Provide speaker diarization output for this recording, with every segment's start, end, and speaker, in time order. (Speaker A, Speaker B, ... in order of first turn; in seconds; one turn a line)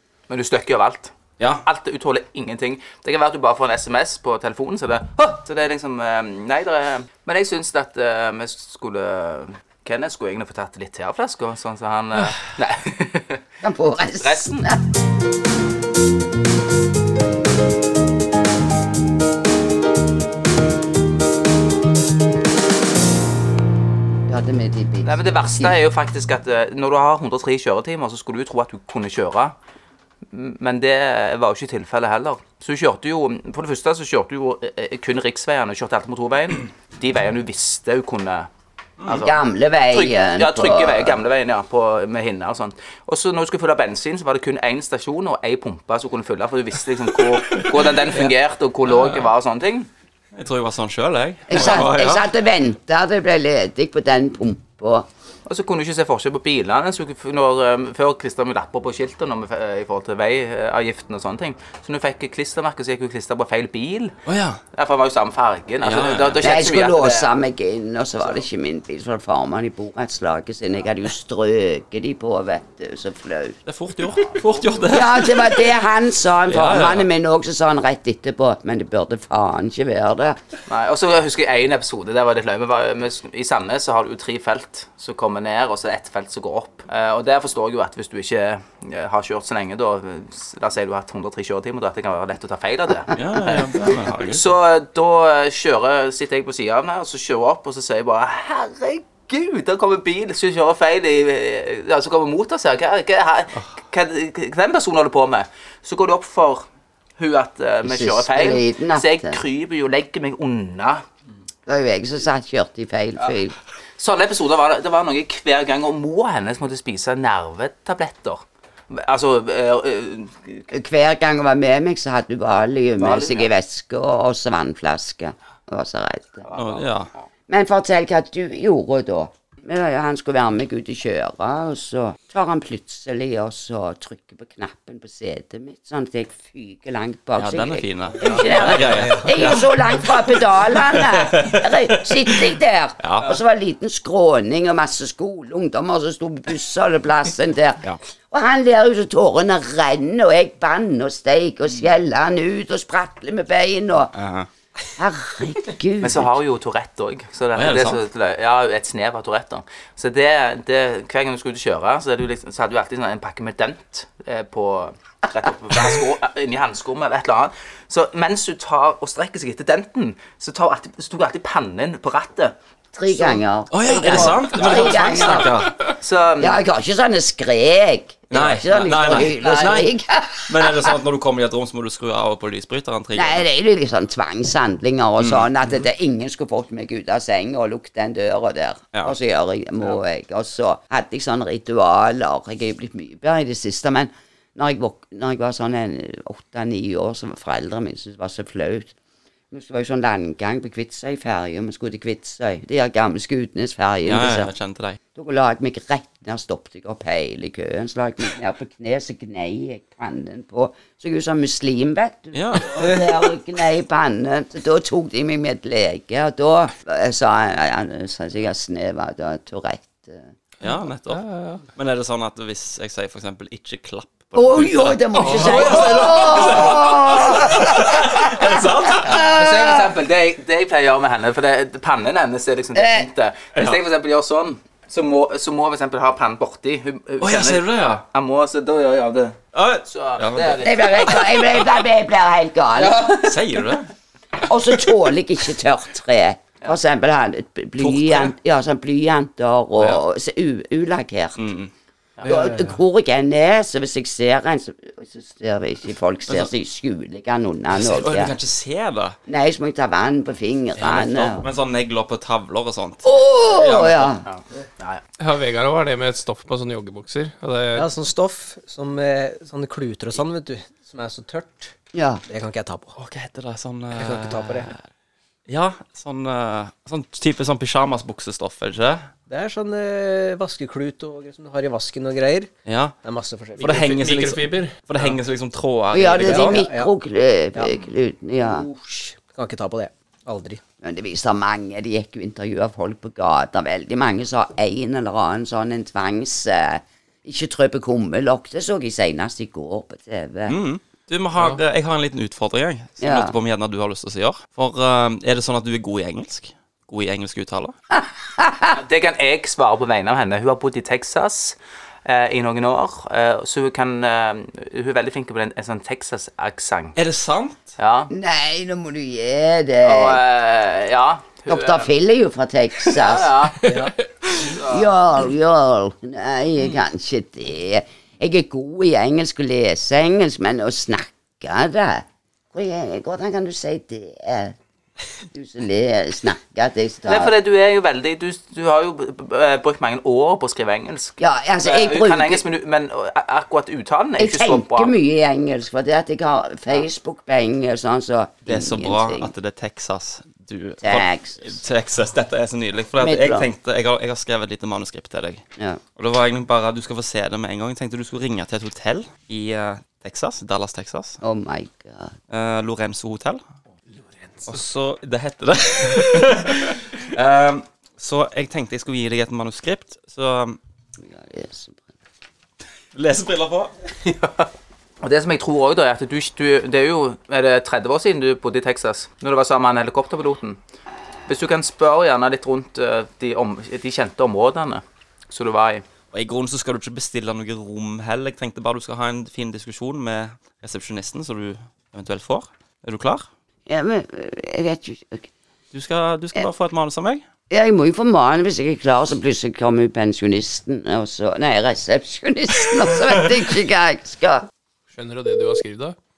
Speaker A: 0.3-1.1
Speaker B: 1.4-1.6
Speaker A: 1.6-13.4
Speaker C: 13.6-14.8
Speaker A: 14.2-14.7
Speaker C: 24.3-25.7
Speaker A: 25.0-29.5
Speaker A: 30.3-38.5
Speaker B: 39.0-39.3
Speaker A: 39.0-39.3
Speaker C: 39.2-41.2
Speaker A: 39.9-49.9
Speaker B: 48.9-49.2
Speaker B: 50.3-52.2
Speaker C: 51.5-55.0
Speaker A: 55.5-64.2
Speaker B: 64.3-64.6
Speaker A: 64.7-67.3
Speaker B: 65.8-66.6
Speaker C: 66.4-73.6
Speaker B: 73.7-75.6
Speaker A: 74.3-74.8
Speaker C: 74.9-80.4
Speaker B: 76.5-77.0
Speaker A: 80.7-106.7
Speaker B: 93.1-94.4
Speaker A: 107.2-111.0
Speaker C: 107.8-109.4
Speaker C: 111.7-113.5
Speaker A: 114.0-120.6
Speaker C: 120.7-126.4
Speaker A: 123.0-123.5
Speaker A: 126.4-126.9
Speaker B: 126.5-127.1
Speaker C: 127.5-154.1
Speaker B: 137.3-139.7
Speaker D: 138.3-139.5
Speaker B: 140.7-142.4
Speaker B: 143.0-143.3
Speaker B: 154.1-154.5
Speaker C: 155.0-156.3
Speaker A: 156.0-172.5
Speaker B: 157.5-158.0
Speaker C: 172.9-175.7
Speaker A: 173.1-173.4
Speaker B: 173.7-175.9
Speaker A: 174.0-176.6
Speaker C: 176.4-181.0
Speaker B: 178.3-179.9
Speaker A: 178.8-179.8
Speaker B: 180.5-183.4
Speaker C: 183.1-198.9
Speaker B: 185.2-185.5
Speaker C: 199.5-204.5
Speaker B: 204.0-205.0
Speaker C: 205.1-220.3
Speaker B: 212.3-213.0
Speaker B: 220.6-229.3
Speaker E: 221.1-221.6
Speaker C: 224.3-229.9
Speaker E: 225.3-225.6
Speaker A: 229.0-241.6
Speaker C: 232.7-233.1
Speaker B: 233.6-233.8
Speaker B: 237.2-238.0
Speaker B: 239.5-241.1
Speaker C: 240.6-243.2
Speaker A: 242.8-243.7
Speaker B: 243.2-243.9
Speaker C: 244.4-251.5
Speaker B: 247.8-248.3
Speaker B: 251.4-251.7
Speaker C: 252.2-258.3
Speaker B: 252.4-252.8
Speaker B: 257.7-259.2
Speaker C: 259.3-261.4
Speaker B: 260.8-264.1
Speaker C: 263.0-264.2
Speaker A: 264.2-265.0
Speaker E: 265.2-267.9
Speaker D: 267.7-271.7
Speaker C: 271.9-272.2
Speaker D: 272.3-272.9
Speaker B: 273.0-274.7
Speaker D: 273.9-274.7
Speaker B: 275.5-279.1
Speaker D: 279.3-282.5
Speaker B: 282.6-282.9
Speaker D: 283.0-283.8
Speaker E: 283.6-284.8
Speaker B: 283.6-286.6
Speaker C: 285.9-288.6
Speaker D: 286.1-286.9
Speaker D: 287.5-287.8
Speaker D: 288.4-290.6
Speaker C: 290.8-300.6
Speaker B: 300.5-307.8
Speaker C: 303.0-303.3
Speaker C: 307.9-308.7
Speaker A: 308.7-316.9
Speaker B: 316.9-317.7
Speaker A: 317.8-318.1
Speaker C: 318.1-320.2
Speaker A: 319.8-321.9
Speaker C: 321.5-323.4
Speaker A: 322.9-323.6
Speaker D: 323.6-323.9
Speaker E: 323.7-324.4
Speaker A: 324.4-324.9
Speaker C: 324.7-334.6
Speaker C: 335.3-337.3
Speaker A: 337.1-344.9
Speaker C: 341.2-342.4
Speaker C: 344.2-349.3
Speaker B: 348.4-355.4
Speaker C: 350.8-351.6
Speaker C: 353.0-353.5
Speaker B: 356.0-361.2
Speaker C: 361.2-362.1
Speaker B: 362.3-363.4
Speaker D: 364.2-364.5
Speaker B: 364.5-370.6
Speaker C: 371.0-371.9
Speaker B: 372.9-373.7
Speaker A: 375.0-380.6
Speaker A: 381.3-385.8
Speaker B: 386.1-393.3
Speaker C: 393.7-395.3
Speaker B: 395.7-397.2
Speaker C: 397.5-404.5
Speaker E: 404.9-405.9